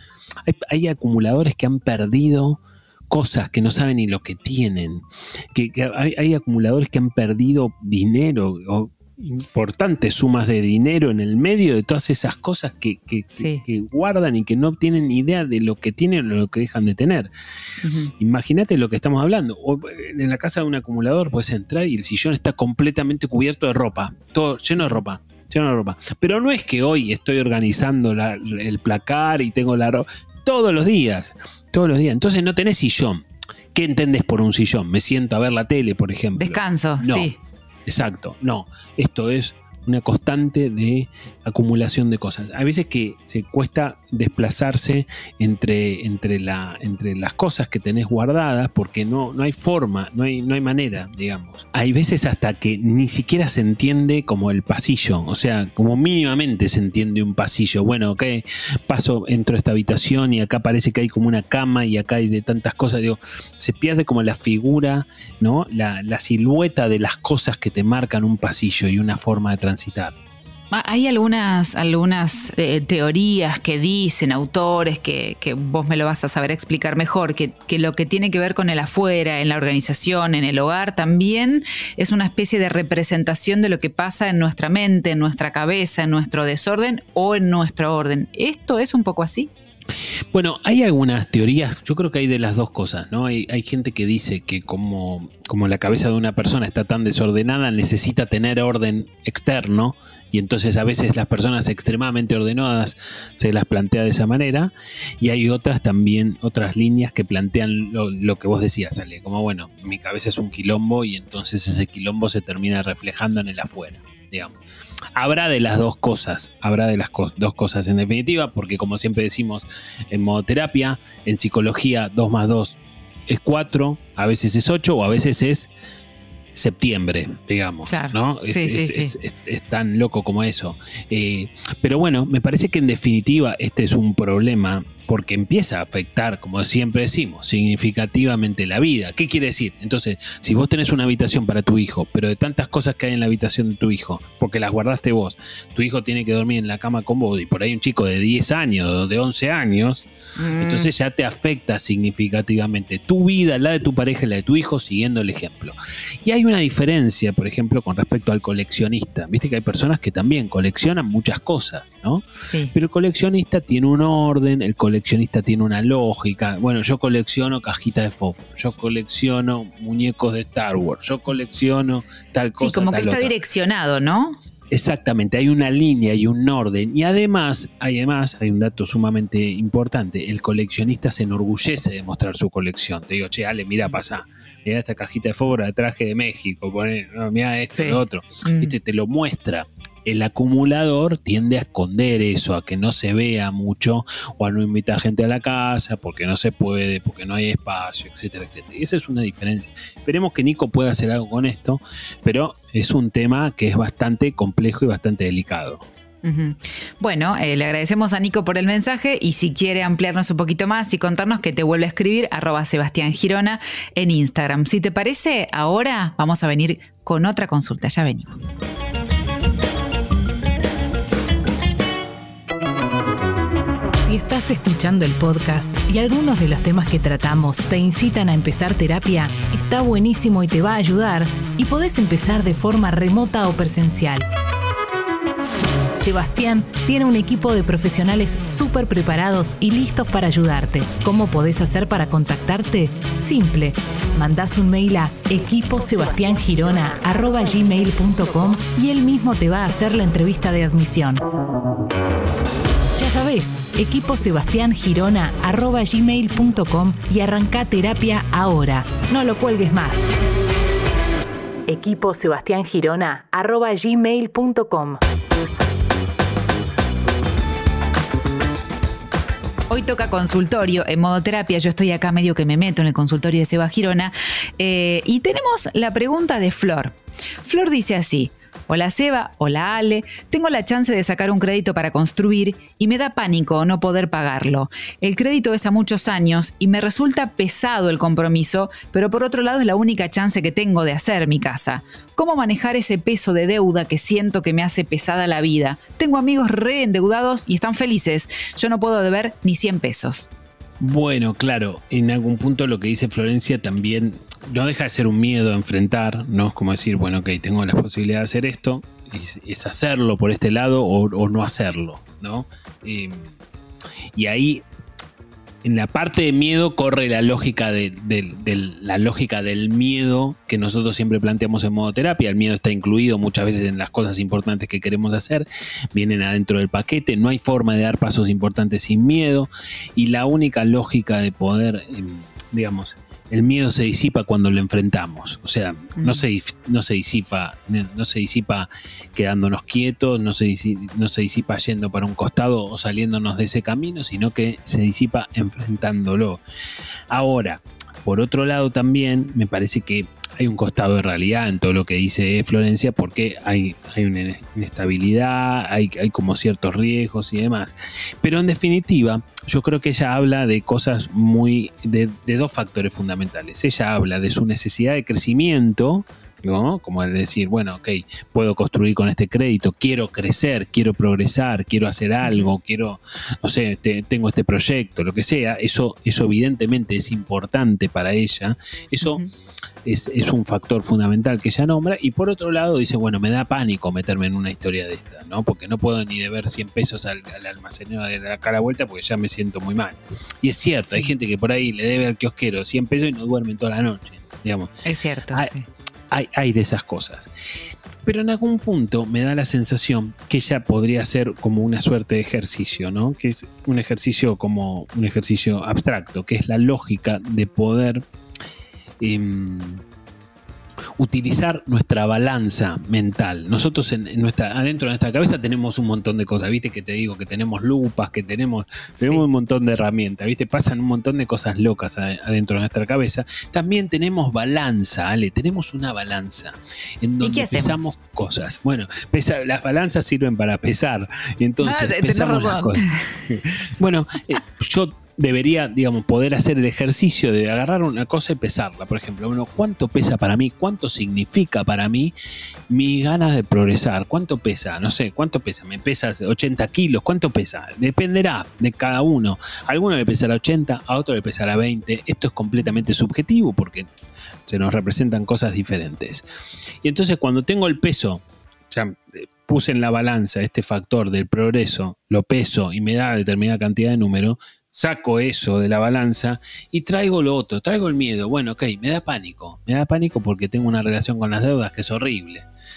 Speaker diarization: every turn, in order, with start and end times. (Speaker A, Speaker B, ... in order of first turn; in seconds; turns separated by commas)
Speaker A: 0.5-17.3, Speaker B: 13.4-13.6, Speaker B: 17.8-18.1, Speaker A: 18.2-37.3, Speaker B: 36.4-37.4, Speaker A: 37.9-70.2, Speaker B: 70.7-89.5, Speaker A: 90.3-114.6, Speaker A: 115.2-125.7, Speaker A: 126.5-173.3, Speaker B: 127.9-129.1, Speaker B: 150.4-150.9, Speaker B: 162.5-162.7, Speaker B: 172.6-174.4, Speaker A: 174.7-205.9, Speaker B: 187.7-188.8, Speaker B: 206.2-218.5, Speaker C: 224.0-234.3, Speaker C: 236.0-251.2, Speaker C: 253.0-260.1, Speaker C: 261.7-265.0, Speaker B: 269.7-300.3, Speaker A: 300.8-313.4, Speaker A: 314.1-314.6, Speaker A: 315.6-346.4, Speaker B: 336.0-336.2, Speaker A: 347.1-379.2, Speaker B: 372.2-372.5, Speaker B: 379.0-379.3, Speaker A: 379.9-394.8, Speaker B: 394.9-395.7, Speaker A: 396.1-397.3, Speaker A: 398.0-408.1, Speaker A: 409.0-409.8, Speaker A: 411.0-442.1, Speaker B: 419.0-419.3, Speaker B: 427.2-427.8, Speaker B: 431.6-433.3, Speaker A: 442.7-453.9, Speaker A: 454.5-456.3, Speaker A: 456.8-472.5